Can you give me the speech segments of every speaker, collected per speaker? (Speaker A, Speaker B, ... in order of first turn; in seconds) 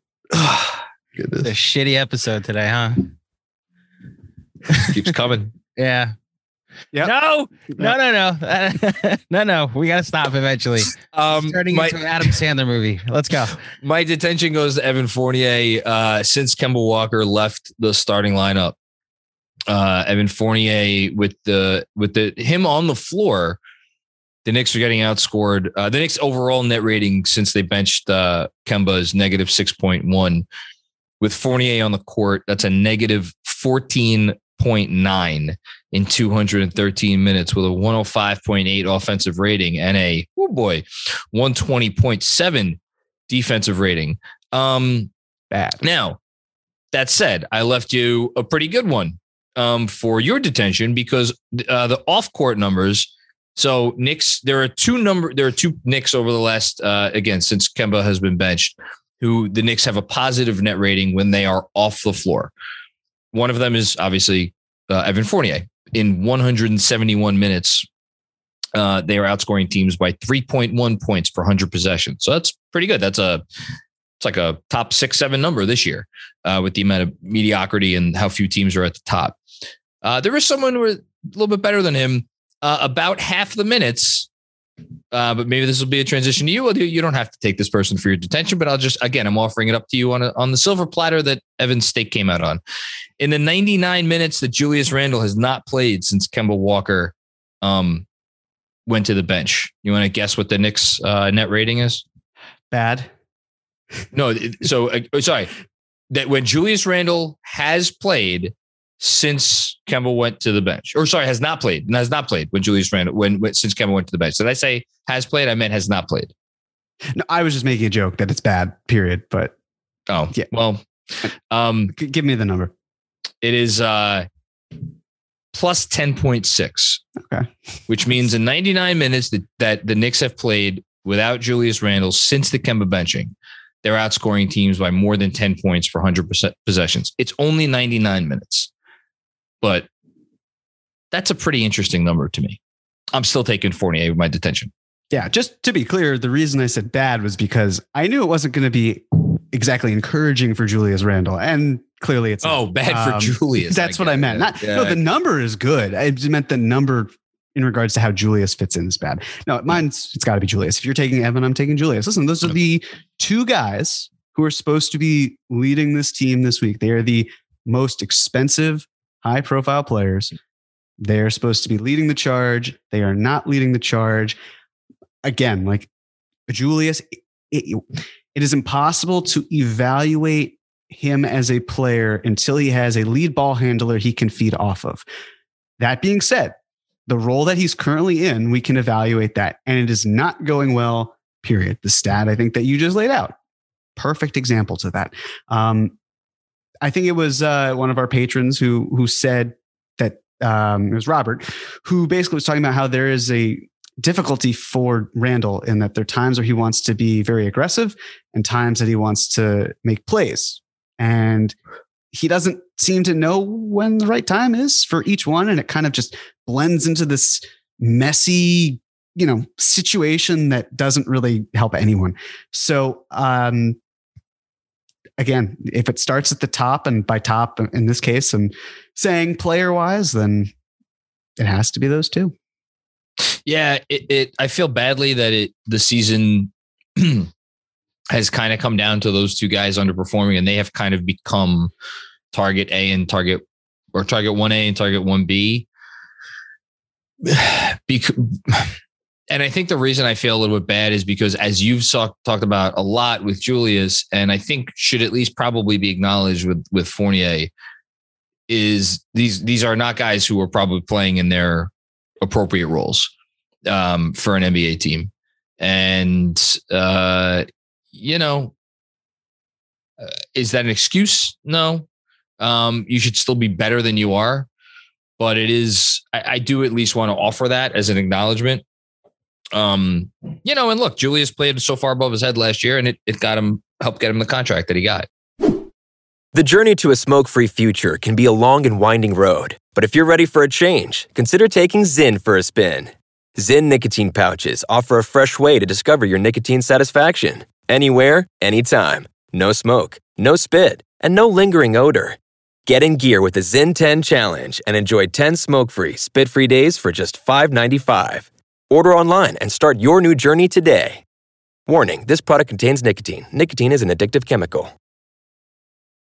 Speaker A: 0.4-1.5, 45.5-45.8, 102.7-103.1, 117.2-119.5, 121.9-122.7, 127.2-127.5, 145.1-170.3, 171.0-174.4, 175.2-175.9, 176.5-185.0, 185.8-186.6, 187.1-193.3, 194.0-195.9, 196.8-211.5, 212.1-223.8, 225.2-230.5, 231.4-232.3
Speaker B: 1.4-3.1, 5.8-6.1, 7.0-13.6
Speaker C: 4.8-5.5, 11.1-12.1, 13.8-18.7, 19.7-23.6, 24.4-30.4, 31.2-45.1, 45.8-46.2, 46.9-62.5, 63.3-67.9, 68.8-73.4, 74.2-79.4, 80.0-84.3, 85.1-92.6, 93.2-98.0, 98.9-102.0, 104.1-105.5, 106.1-116.3, 120.1-120.8, 121.5-121.9, 123.4-124.3, 125.5-127.0, 127.9-138.7, 139.6-139.9, 141.1-142.6, 143.1-144.7, 152.4-155.0, 233.5-237.3, 238.1-241.7, 242.3-245.7, 247.2-248.8, 249.3-257.5, 258.5-261.7, 262.2-263.1, 263.6-268.5, 270.0-271.9, 272.4-274.5, 275.2-278.6, 279.5-285.1
Speaker D: 286.3-311.0, 311.7-314.7